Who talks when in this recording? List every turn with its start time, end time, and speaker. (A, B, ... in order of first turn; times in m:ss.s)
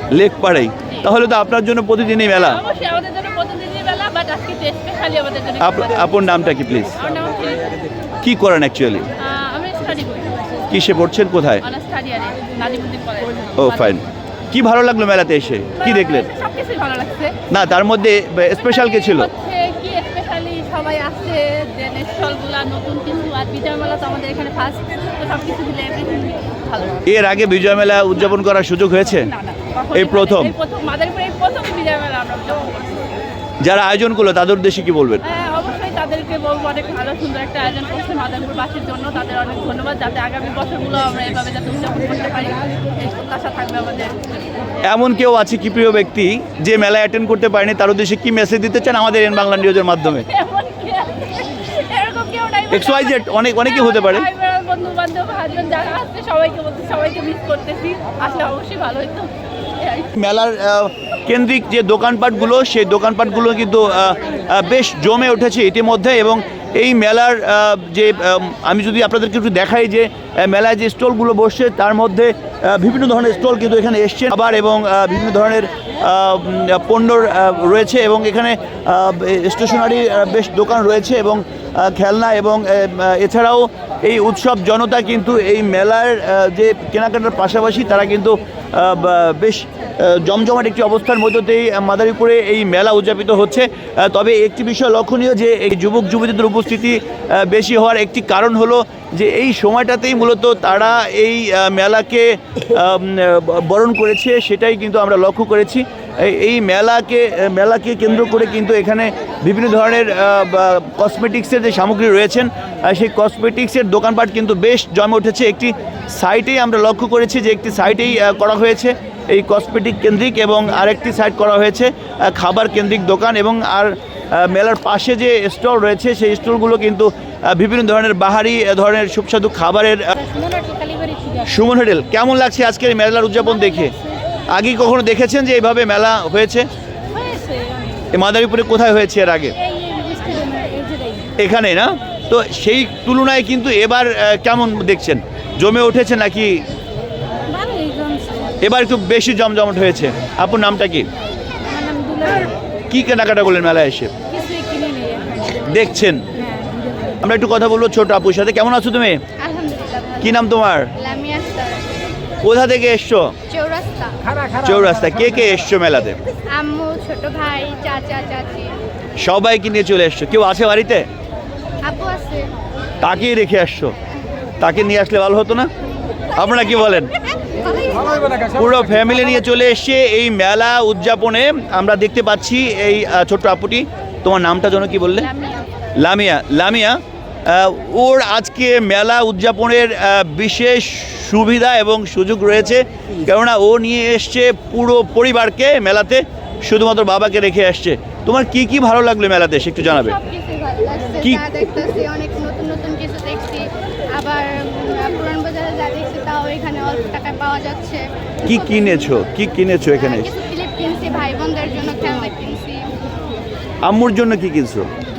0:00.1-0:02.6 A
0:02.3-0:06.1 B
0:05.6-0:07.0 A
0:07.0-0:07.8 B
0:08.2-0:09.1 A
0:09.2-0:10.5 B
0:10.7-0:11.6 A
0:11.6-0:14.0 B
0:13.6-0:16.3 A
0:15.8-0:17.4 B
0:17.5-0:19.3 A
0:19.0-0:27.0 B
0:27.0-0:29.3 A
0:29.3-0:33.1 B
0:29.9-0:30.6 A
0:33.6-0:35.2 A
0:35.2-0:44.4 B
0:44.8-0:50.3 A
0:50.3-1:00.1 B
0:52.7-0:54.3 A
1:00.2-2:10.2 A
2:10.4-2:11.4 B
2:11.4-2:13.9 A
2:14.5-2:16.7 A
2:17.1-2:18.0 B
2:18.1-2:19.6 A
2:19.6-2:21.3 B
2:21.4-2:26.6 A
2:27.5-2:28.6 B
2:28.6-2:31.1 A
2:31.7-2:32.5 B
2:32.9-2:34.1 A
2:34.3-2:35.5 B
2:35.5-2:36.3 A
2:36.4-2:36.8 B
2:37.2-2:39.2 A
2:39.4-2:41.8 C
2:40.2-2:40.9 A
2:42.4-2:43.4 A
2:43.5-2:44.2 C
2:44.6-2:46.2 A
2:46.5-2:48.8 C
2:49.2-2:51.1 A
2:51.8-2:52.5 C
2:53.0-2:54.0 A
2:54.6-2:55.7 A
2:56.4-2:57.1 A
2:57.6-2:58.4 C
2:58.5-3:05.3 A
3:06.0-3:20.2 A
3:19.8-3:29.1 C
3:28.5-3:30.3 A
3:30.0-3:32.9 C
3:33.8-3:34.9 A